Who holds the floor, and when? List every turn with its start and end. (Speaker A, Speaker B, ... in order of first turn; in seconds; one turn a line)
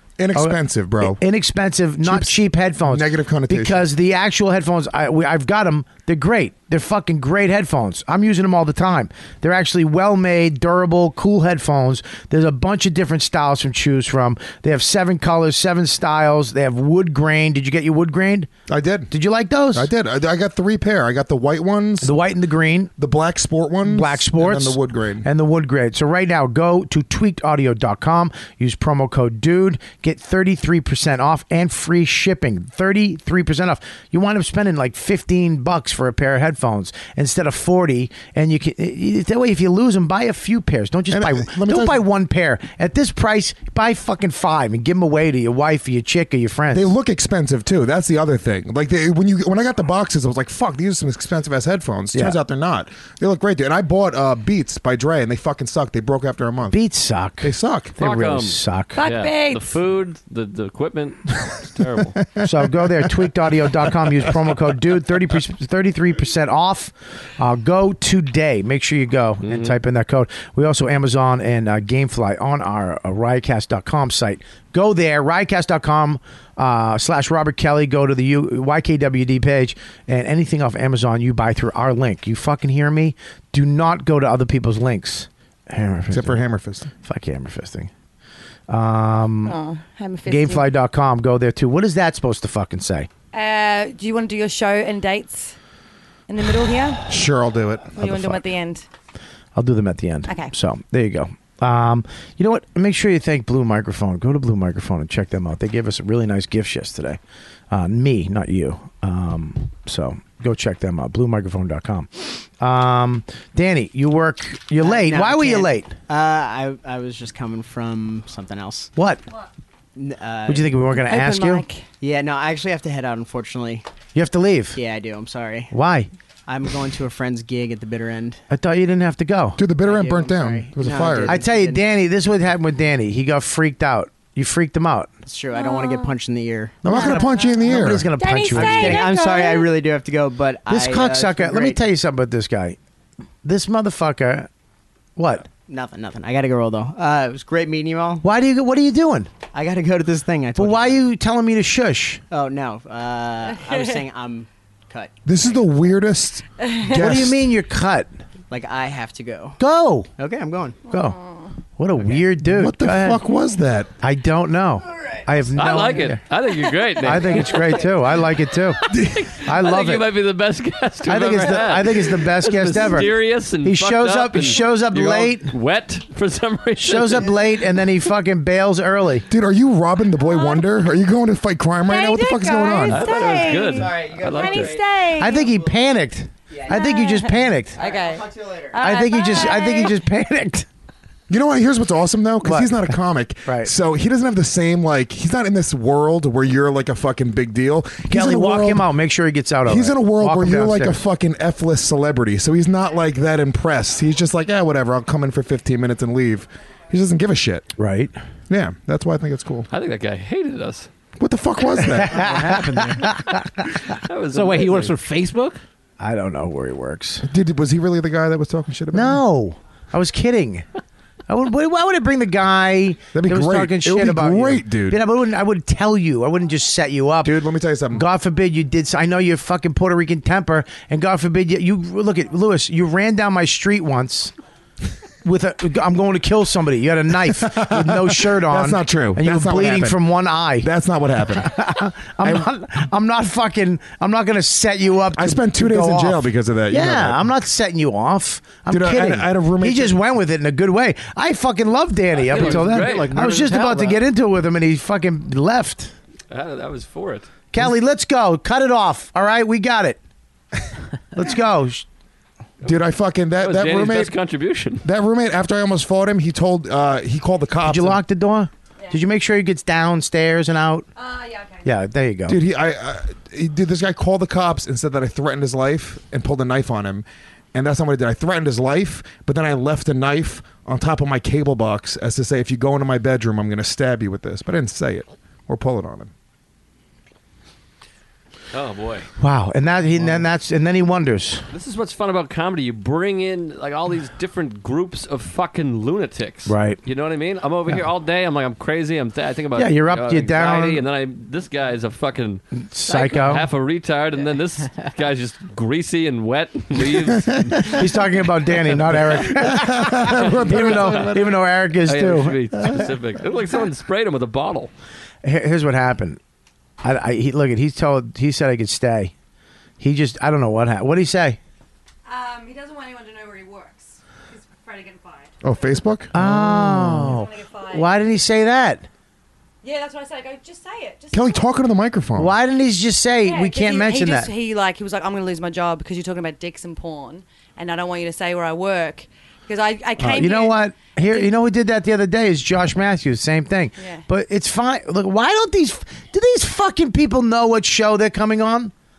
Speaker A: 0.2-1.2
Speaker B: 0.3-18.5
Speaker A: 2.0-3.9
Speaker A: 18.7-19.1
Speaker B: 19.1-19.9
Speaker A: 19.7-22.1
Speaker B: 22.0-22.9
Speaker A: 22.9-25.2
Speaker B: 23.8-46.9
Speaker A: 41.1-42.0
Speaker A: 46.7-56.8
Speaker B: 56.7-59.0
Speaker A: 57.4-57.9
Speaker C: 58.0-62.1
Speaker D: 59.0-59.8
Speaker A: 62.2-63.1
Speaker B: 62.4-86.4
Speaker C: 69.4-69.8
Speaker A: 86.1-86.9
Speaker B: 87.0-87.9
Speaker B: 88.7-89.6
Speaker D: 89.4-90.7
Speaker B: 90.3-93.1
Speaker D: 93.3-95.5
Speaker D: 96.3-97.2
Speaker A: 97.1-98.2
Speaker D: 97.9-98.8
Speaker B: 98.1-98.4
Speaker B: 99.5-116.0
Speaker E: 114.8-118.9
Speaker B: 119.0-119.2
Speaker E: 120.0-120.8
Speaker B: 120.5-121.6
Speaker D: 121.0-121.8
Speaker E: 122.0-123.8
Speaker B: 124.1-124.8
Speaker E: 124.8-125.7
Speaker B: 125.7-126.1
Speaker E: 126.5-128.4
Speaker B: 128.5-129.7
Speaker A: 129.6-131.4
Speaker E: 129.8-131.8
Speaker B: 130.8-135.1
Speaker E: 135.2-136.8
Speaker D: 135.5-136.1
Speaker A: 136.8-138.1
Speaker B: 136.8-139.1
Speaker D: 136.8-139.7
Speaker E: 138.5-141.8
Speaker B: 140.7-142.8
Speaker B: 143.4-144.5
Speaker B: 145.2-145.5
Speaker E: 145.7-148.2
Speaker B: 148.2-149.3
Speaker E: 149.5-151.0
Speaker B: 150.6-152.2
Speaker E: 152.3-155.1
Speaker D: 153.5-154.0
Speaker A: 155.2-157.4
Speaker D: 156.6-157.1
Speaker B: 156.9-158.1
Speaker E: 158.5-159.6
Speaker B: 159.6-160.1
Speaker E: 160.2-160.8
Speaker B: 160.9-161.2
Speaker B: 161.8-163.2
Speaker A: 162.4-163.9
Speaker B: 164.0-166.2
Speaker C: 165.5-168.0
Speaker B: 167.0-168.9
Speaker A: 168.9-169.3
Speaker C: 168.9-177.3
Speaker B: 169.4-170.1
Speaker B: 171.0-175.5
Speaker B: 176.8-179.3
Speaker A: 179.3-183.1
Speaker D: 180.2-180.7
Speaker D: 181.8-185.5
Speaker C: 182.8-184.8
Speaker E: 183.4-184.8
Speaker B: 185.1-187.8
Speaker E: 186.5-186.8
Speaker D: 186.7-190.0
Speaker E: 187.7-188.8
Speaker B: 188.8-190.7
Speaker A: 191.3-198.9
Speaker B: 192.4-193.7
Speaker B: 198.1-201.0
Speaker A: 199.7-207.7
Speaker B: 207.8-208.1
Speaker A: 208.5-209.7
Speaker C: 209.7-210.9
Speaker A: 211.2-212.2
Speaker B: 211.8-213.4
Speaker F: 211.9-213.1
Speaker C: 213.9-214.9
Speaker F: 214.3-215.6
Speaker B: 216.0-217.3
Speaker A: 217.2-219.2
Speaker B: 218.9-220.6
Speaker B: 221.3-234.3
Speaker A: 223.1-225.0
Speaker A: 227.2-228.0
Speaker B: 235.2-240.7
Speaker A: 237.4-240.0
Speaker A: 240.6-241.6
Speaker B: 241.3-255.9
Speaker A: 245.1-247.3
Speaker A: 248.7-250.0
Speaker C: 252.3-253.1
Speaker F: 252.3-254.0
Speaker C: 256.3-257.3
Speaker B: 257.5-260.0
Speaker B: 261.1-261.9
Speaker A: 262.6-264.1
Speaker C: 263.4-264.9
Speaker A: 264.8-268.0
Speaker B: 267.6-270.9
Speaker D: 270.9-271.7
Speaker B: 271.6-272.4
Speaker A: 272.3-286.1
Speaker C: 288.5-289.1
Speaker B: 289.2-291.4
Speaker C: 291.5-307.8
Speaker B: 296.4-296.8
Speaker B: 299.5-300.8
Speaker B: 302.7-303.5
Speaker B: 307.6-312.8
Speaker A: 309.3-311.2
Speaker C: 310.0-314.7
Speaker B: 315.2-316.2
Speaker B: 316.8-319.1
Speaker B: 319.8-321.4
Speaker D: 322.1-325.3
Speaker A: 325.4-326.1
Speaker B: 326.1-328.9
Speaker D: 326.9-327.9
Speaker D: 329.6-331.6
Speaker A: 331.1-332.3
Speaker B: 332.1-334.3
Speaker D: 333.2-341.3
Speaker B: 340.0-348.7